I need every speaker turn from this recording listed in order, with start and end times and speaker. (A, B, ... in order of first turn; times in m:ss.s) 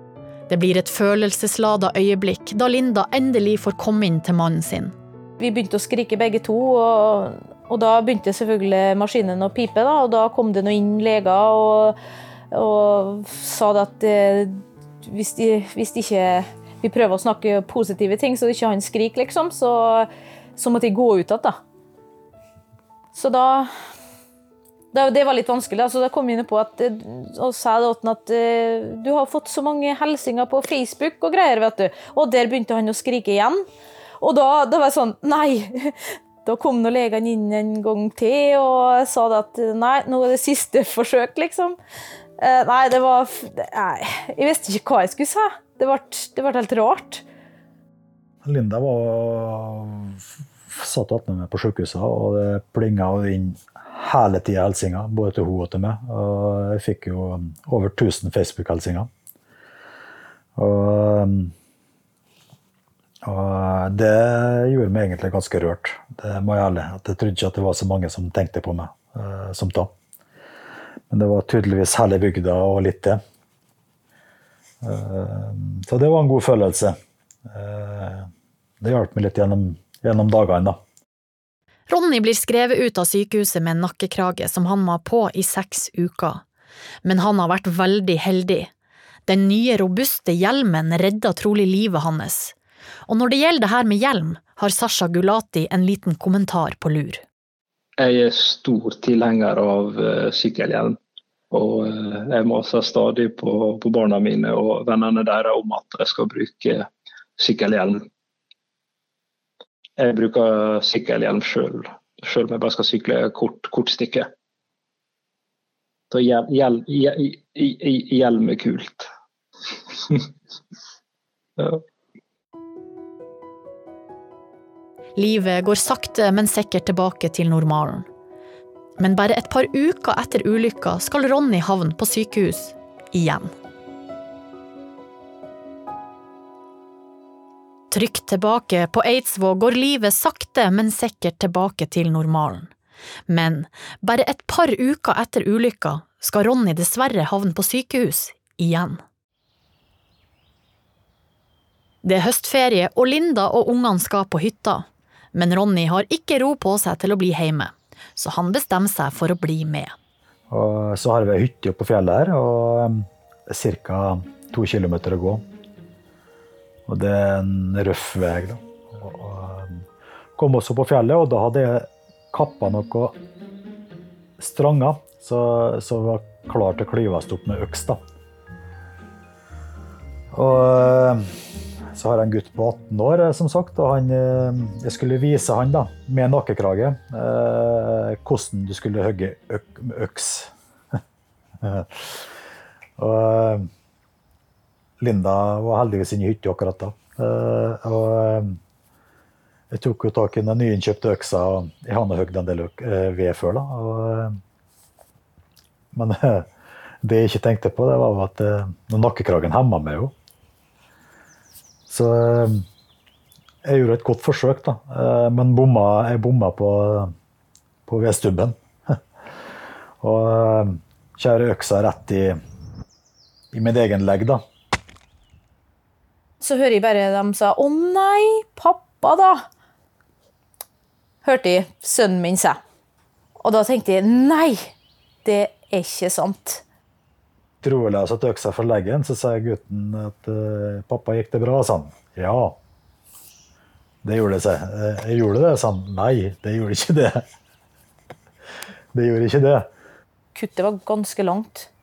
0:00.5-0:05.0 A
0:05.4-0:12.0 B
0:12.5-0:21.6 B
0:23.1-0:23.7 B
0:24.9-0:33.6 B
0:34.2-0:41.8 B
0:42.4-0:47.2 B
0:48.4-0:59.1 C
1:00.6-1:01.5 C
1:03.2-1:09.9 C
1:11.1-1:13.2 C
1:14.8-1:17.0 C
1:17.5-1:18.3 C
1:18.8-1:20.8 C
1:21.9-1:26.4 A
1:27.0-1:28.7 A
1:29.3-1:32.6 A
1:33.1-1:37.2 A
1:38.0-1:41.0 D
1:41.5-1:48.0 D
1:50.0-1:54.3 D
1:56.1-1:59.1 D
1:59.9-2:00.3 D
2:01.6-2:01.8 D
2:05.2-2:08.1 A
2:09.0-2:13.5 A
2:17.9-2:22.7 A
2:23.3-2:29.0 A
2:32.0-2:39.9 A
2:40.5-2:45.4 C
2:46.9-2:49.8 C
2:50.4-2:53.2 C
2:54.4-2:58.0 C
3:00.3-3:01.3 C
3:01.9-3:10.5 C
3:11.6-3:12.3 C
3:13.0-3:13.7 C
3:15.0-3:18.6 C
3:19.7-3:24.4 C
3:25.9-3:26.5 C
3:27.0-3:30.1 C
3:31.9-3:32.6 C
3:33.6-3:37.1 C
3:37.9-3:39.0 C
3:40.0-3:42.4 C
3:43.5-3:44.4 C
3:46.4-3:49.4 B
3:51.2-3:52.6 B
3:53.4-3:54.7 B
3:55.2-3:56.6 B
3:57.6-4:02.6 C
4:04.0-4:07.2 C
4:08.9-4:09.7 C
4:10.4-4:11.7 B